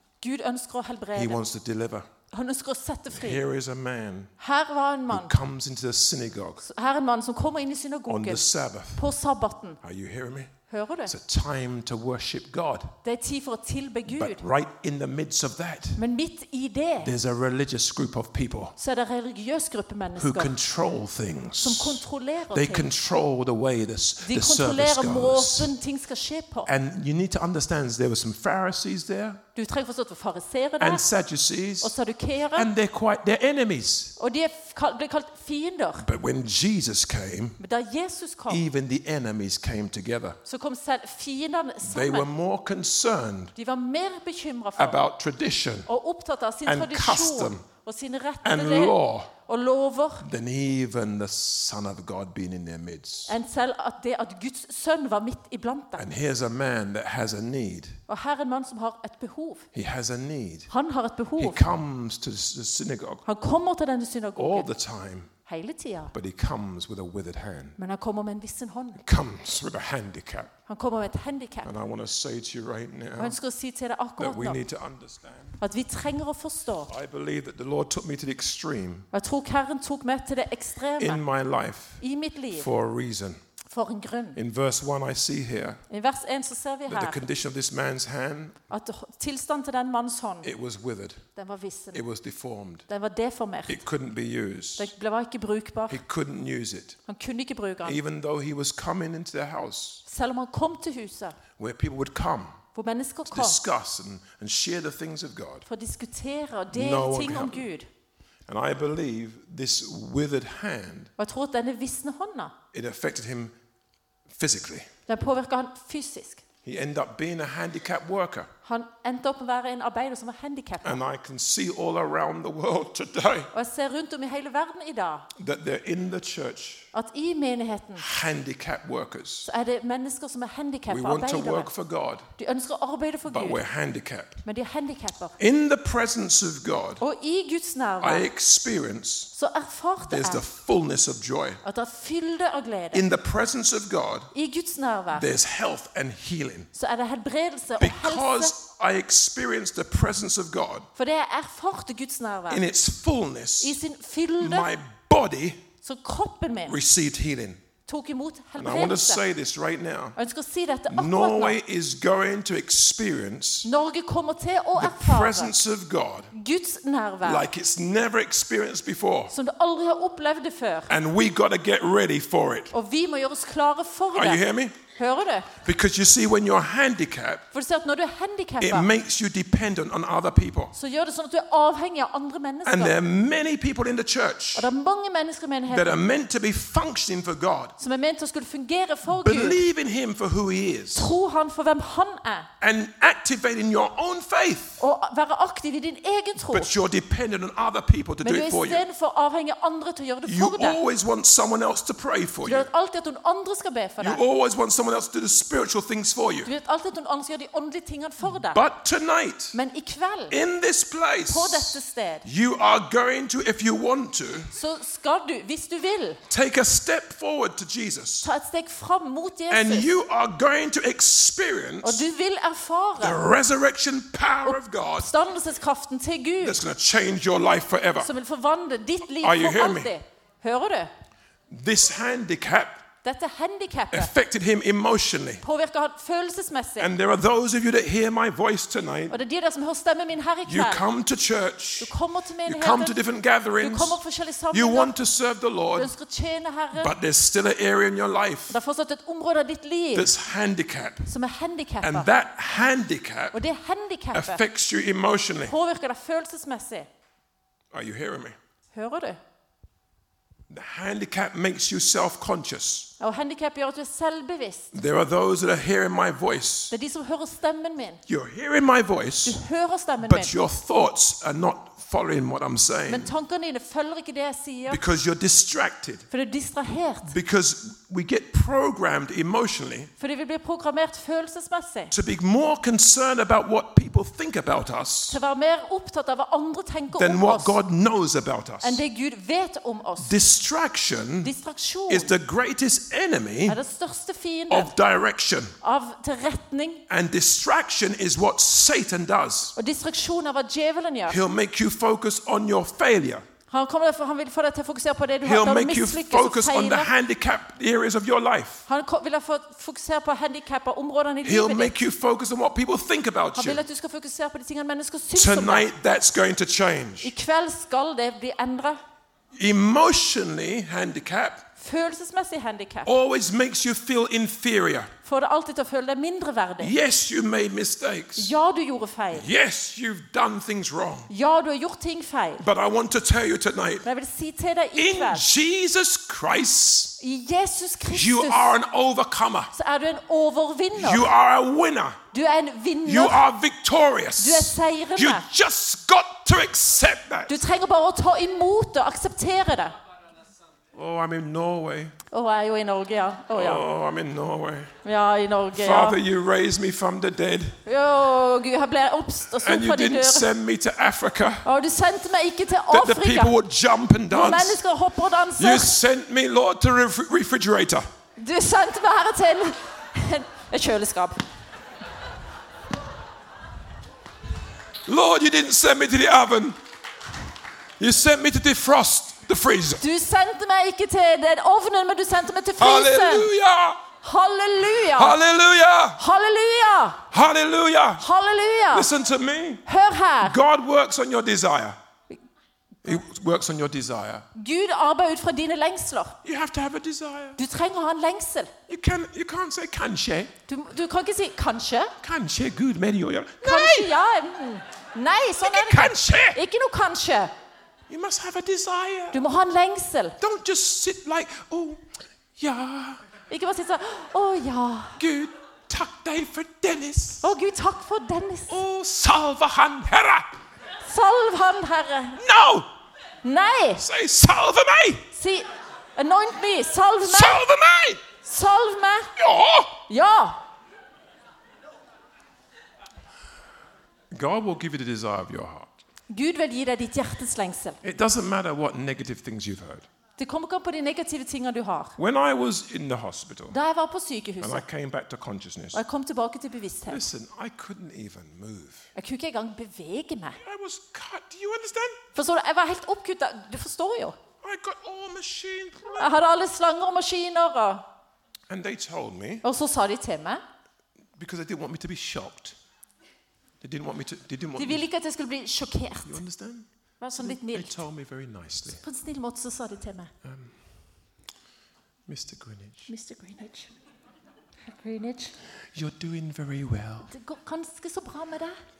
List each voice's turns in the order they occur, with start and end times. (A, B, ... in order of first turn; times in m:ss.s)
0:00.2-0:01.4 A
0:01.1-0:02.1 B
0:02.3-0:03.4 A
0:03.1-0:04.3 B
0:04.4-0:05.3 A
0:05.1-0:06.6 B
0:06.6-0:09.8 A
0:08.1-0:09.1 B
0:09.8-0:13.0 B
0:10.7-0:11.1 A
0:13.0-0:14.4 A
0:14.0-0:16.0 B
0:16.0-0:17.1 A
0:17.0-0:18.7 B
0:18.8-0:20.5 A
0:20.2-0:25.7 B
0:21.6-0:22.9 A
0:24.2-0:26.7 A
0:26.6-0:29.4 B
0:29.5-0:31.0 A
0:30.8-0:32.0 B
0:31.8-0:32.7 A
0:32.5-0:34.2 B
0:34.2-0:36.0 A
0:36.0-0:37.6 B
0:37.6-0:38.6 A
0:38.5-0:40.4 B
0:40.4-0:42.3 A
0:41.8-0:43.5 B
0:43.5-0:45.0 A
0:44.8-0:45.9 B
0:45.9-0:50.2 A
0:46.6-0:47.6 B
0:48.4-0:49.3 B
0:50.2-0:53.4 B
0:53.3-0:56.0 A
0:56.0-0:58.0 B
0:58.1-0:59.7 A
0:59.7-1:00.7 B
1:00.7-1:01.6 A
1:01.4-1:03.2 B
1:03.2-1:04.7 A
1:04.4-1:05.3 B
1:05.4-1:06.1 A
1:06.1-1:07.8 B
1:07.8-1:09.0 A
1:09.0-1:10.5 B
1:10.7-1:11.7 A
1:11.6-1:13.4 B
1:13.2-1:14.6 A
1:14.2-1:15.6 B
1:15.6-1:16.9 A
1:16.9-1:19.1 B
1:19.1-1:21.2 A
1:21.0-1:22.0 B
1:22.0-1:22.7 A
1:22.5-1:23.4 B
1:23.7-1:24.4 A
1:24.3-1:25.8 B
1:25.9-1:27.2 A
1:26.9-1:28.6 B
1:28.7-1:30.5 A
1:30.4-1:31.2 B
1:31.4-1:32.0 A
1:31.9-1:32.9 B
1:32.9-1:33.8 A
1:33.7-1:34.9 B
1:34.8-1:36.0 A
1:35.9-1:37.0 B
1:37.1-1:38.0 A
1:37.8-1:40.0 B
1:40.0-1:41.4 A
1:41.6-1:42.6 B
1:42.7-1:43.6 A
1:43.3-1:45.7 B
1:45.6-1:47.9 A
1:46.7-1:47.7 B
1:48.5-1:51.1 B
1:51.2-1:52.5 A
1:52.7-1:53.6 B
1:54.3-1:54.9 B
1:55.1-1:56.4 A
1:56.6-1:58.5 B
1:58.6-2:01.0 A
2:00.8-2:03.5 B
2:03.5-2:05.3 A
2:05.4-2:06.9 B
2:06.9-2:08.0 A
2:08.0-2:09.5 B
2:09.4-2:11.7 A
2:10.9-2:12.3 B
2:12.4-2:13.6 A
2:13.2-2:14.4 B
2:14.4-2:15.4 A
2:15.4-2:17.0 B
2:17.0-2:18.2 A
2:18.0-2:19.3 B
2:19.3-2:20.4 A
2:20.0-2:21.6 B
2:21.6-2:23.0 A
2:22.9-2:24.3 B
2:24.3-2:25.3 A
2:25.1-2:26.7 B
2:26.7-2:28.5 A
2:27.8-2:30.9 B
2:31.0-2:32.6 A
2:32.5-2:33.8 B
2:33.6-2:34.7 A
2:34.4-2:35.6 B
2:35.8-2:36.8 A
2:36.6-2:37.6 B
2:37.8-2:39.2 A
2:38.6-2:40.2 B
2:40.2-2:41.6 A
2:40.9-2:43.7 B
2:43.6-2:45.5 A
2:44.8-2:46.3 B
2:46.3-2:47.4 A
2:47.2-2:49.3 B
2:49.3-2:50.9 A
2:50.9-2:52.7 B
2:52.7-2:54.4 A
2:54.1-2:54.8 B
2:54.9-2:55.5 A
2:55.5-2:57.4 B
2:57.5-2:58.9 A
2:58.6-3:00.7 B
3:00.7-3:02.9 A
3:02.6-3:04.7 B
3:04.5-3:05.9 A
3:05.7-3:07.8 B
3:07.8-3:09.6 A
3:09.1-3:11.1 B
3:10.9-3:12.5 A
3:12.6-3:14.8 B
3:14.8-3:16.7 A
3:16.4-3:18.8 B
3:18.2-3:20.8 A
3:20.2-3:22.7 B
3:22.4-3:24.2 A
3:24.0-3:26.5 B
3:26.4-3:28.6 A
3:28.4-3:29.6 B
3:29.5-3:30.4 A
3:30.3-3:34.5 B
3:31.3-3:32.2 A
3:34.5-3:36.2 A
3:36.3-3:38.3 B
3:38.2-3:39.9 A
3:39.5-3:42.0 B
3:41.8-3:43.2 A
3:43.0-3:45.1 B
3:44.4-3:46.6 A
3:46.4-3:48.1 B
3:48.0-3:50.9 A
3:49.2-3:49.9 B
3:51.5-3:52.8 B
3:53.0-3:54.1 A
3:53.9-3:55.4 B
3:55.4-3:56.9 A
3:56.8-3:59.2 B
3:59.1-4:00.8 A
4:00.4-4:01.9 B
4:01.8-4:03.0 A
4:02.4-4:04.0 B
4:03.6-4:04.9 A
4:04.5-4:05.9 B
4:05.7-4:06.9 A
4:06.7-4:08.6 B
4:08.5-4:10.1 A
4:09.9-4:11.1 B
4:11.0-4:12.1 A
4:11.8-4:13.4 B
4:13.3-4:14.4 A
4:14.1-4:15.5 B
4:15.4-4:16.9 A
4:17.7-4:18.4 B
4:18.7-4:19.2 A
4:20.5-4:22.9 B
4:23.0-4:24.7 A
4:24.7-4:26.7 B
4:26.7-4:28.0 A
4:28.1-4:29.4 B
4:29.2-4:30.3 A
4:30.0-4:33.1 B
4:32.9-4:34.8 A
4:34.7-4:36.1 B
4:36.1-4:37.1 A
4:37.0-4:39.9 B
4:40.0-4:41.9 A
4:41.9-4:45.2 B
4:45.1-4:47.6 A
4:46.9-4:48.8 B
4:48.6-4:50.1 A
4:50.0-4:51.3 B
4:51.2-4:52.1 A
4:51.9-4:53.6 B
4:53.5-4:54.7 A
4:54.5-4:55.5 B
4:55.6-4:56.8 A
4:56.9-4:59.5 B
4:59.6-5:01.2 A
5:01.1-5:03.2 B
5:03.5-5:06.9 A
5:05.2-5:08.6 B
5:08.7-5:11.7 A
5:11.2-5:13.6 B
5:13.4-5:15.7 A
5:15.1-5:17.1 B
5:17.0-5:18.8 A
5:19.3-5:21.4 B
5:21.6-5:22.9 A
5:22.8-5:24.9 B
5:25.0-5:26.7 A
5:26.6-5:28.3 B
5:28.2-5:29.3 A
5:29.1-5:31.1 B
5:31.1-5:32.4 A
5:32.4-5:33.8 B
5:33.8-5:35.2 A
5:34.8-5:37.0 B
5:37.0-5:38.5 A
5:37.9-5:39.5 B
5:39.5-5:41.1 A
5:40.7-5:42.0 B
5:42.1-5:43.2 A
5:42.8-5:47.4 B
5:44.2-5:45.2 A
5:47.3-5:49.8 A
5:50.7-5:52.0 B
5:52.1-5:53.6 A
5:53.3-5:54.7 B
5:54.8-5:56.0 A
5:55.5-5:57.6 B
5:57.6-6:00.3 A
5:59.4-6:01.4 B
6:01.4-6:03.3 A
6:02.7-6:04.6 B
6:04.1-6:05.7 A
6:05.4-6:07.9 B
6:08.2-6:11.2 A
6:14.8-6:16.6 B
6:17.8-6:19.8 B
6:19.8-6:23.3 A
6:22.6-6:23.8 B
6:24.0-6:25.2 A
6:24.7-6:26.0 B
6:26.0-6:27.0 A
6:27.1-6:28.0 B
6:28.0-6:28.9 A
6:28.7-6:29.6 B
6:29.6-6:30.4 A
6:30.2-6:31.8 B
6:32.8-6:34.3 B
6:34.3-6:36.2 A
6:36.2-6:37.4 B
6:37.4-6:38.5 A
6:38.7-6:40.3 B
6:40.5-6:41.9 A
6:42.0-6:43.9 B
6:43.4-6:47.3 A
6:45.4-6:46.4 B
6:47.9-6:49.2 B
6:49.1-6:50.2 A
6:50.2-6:53.0 B
6:53.3-6:55.0 A
6:55.0-6:57.3 B
6:57.2-6:58.6 A
6:58.5-7:00.3 B
7:00.8-7:02.2 A
7:02.2-7:02.7 B
7:03.2-7:03.8 A
7:03.8-7:05.0 B
7:05.1-7:07.4 A
7:07.0-7:08.0 B
7:08.2-7:09.1 A
7:09.2-7:09.8 B
7:09.9-7:10.4 A
7:14.1-7:15.8 B
7:16.1-7:17.8 A
7:17.8-7:19.9 B
7:20.2-7:22.0 A
7:22.0-7:23.6 B
7:23.5-7:24.6 A
7:24.4-7:25.8 B
7:25.7-7:27.0 A
7:26.8-7:28.9 B
7:29.0-7:30.4 A
7:30.4-7:32.0 B
7:32.1-7:34.2 A
7:34.4-7:36.1 B
7:36.0-7:37.8 A
7:38.5-7:39.4 B
7:39.4-7:40.4 A
7:41.2-7:42.6 B
7:43.6-7:44.8 B
7:44.6-7:46.2 A
7:46.0-7:48.8 B
7:47.0-7:47.8 A
7:48.7-7:50.1 A
7:50.2-7:50.6 B
7:52.1-7:52.9 B
7:52.9-7:53.7 A
7:54.6-7:55.4 A
7:55.7-7:57.1 B
7:57.0-7:58.6 A